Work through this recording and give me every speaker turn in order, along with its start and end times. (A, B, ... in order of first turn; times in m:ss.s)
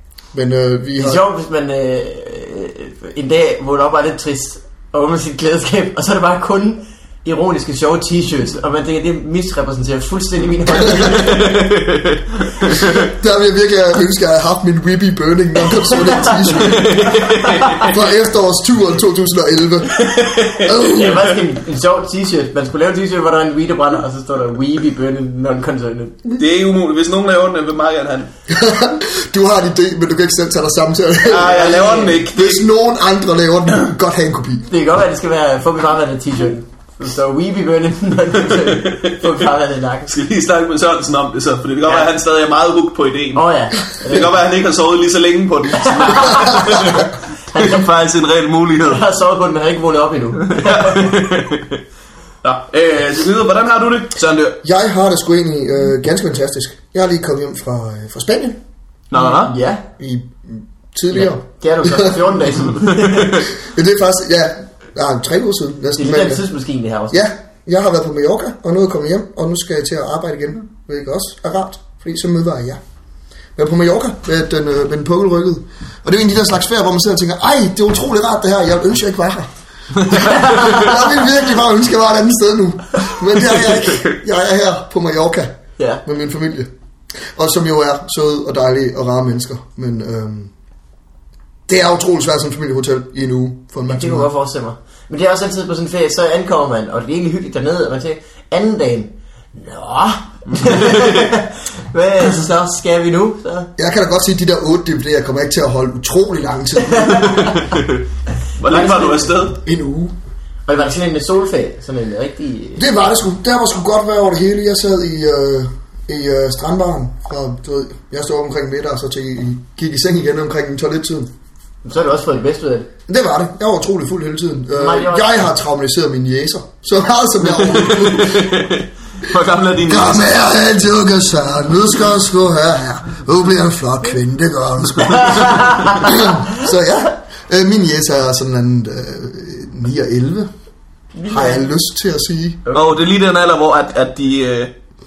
0:00.3-0:01.2 A
0:01.0-0:11.7 B
0:11.1-0:13.0 C
0:12.8-0:21.3 A
0:15.8-0:17.8 B
0:16.5-0:17.9 C
0:20.0-0:20.7 C
0:20.7-0:26.2 B
0:26.3-0:28.3 C
0:28.5-0:34.6 A
0:31.2-0:32.7 C
0:31.4-0:32.2 B
0:34.7-0:40.1 B
0:38.5-0:39.2 C
0:40.1-0:49.0 C
0:41.8-0:42.1 B
0:43.3-0:44.3 B
0:45.8-0:47.9 B
0:48.8-0:51.2 B
0:50.4-0:51.8 C
0:52.4-0:54.6 C
0:54.6-0:58.6 A
0:59.1-0:59.5 C
0:59.1-0:59.8 B
1:00.0-1:02.4 A
1:01.1-1:03.4 B
1:02.8-1:03.4 C
1:03.5-1:06.4 A
1:06.0-1:07.2 B
1:07.1-1:12.8 A
1:13.6-1:19.5 A
1:20.0-1:26.7 A
1:20.1-1:20.8 C
1:20.1-1:20.9 B
1:23.6-1:24.1 C
1:25.8-1:26.0 B
1:27.3-1:30.5 A
1:31.7-1:34.3 A
1:33.8-1:43.7 B
1:40.5-1:41.3 C
1:43.8-1:47.3 A
1:46.9-1:47.6 B
1:47.1-1:48.0 C
1:48.6-1:49.6 C
1:48.6-1:49.3 B
1:49.6-1:50.1 A
1:50.7-1:52.9 B
1:52.8-2:01.3 A
2:01.8-2:02.9 B
2:03.1-2:08.5 A
2:04.7-2:05.4 B
2:07.5-2:10.4 C
2:09.9-2:20.5 A
2:15.2-2:16.0 B
2:21.1-2:21.6 B
2:21.3-2:22.6 A
2:22.6-2:22.9 B
2:22.7-2:24.7 C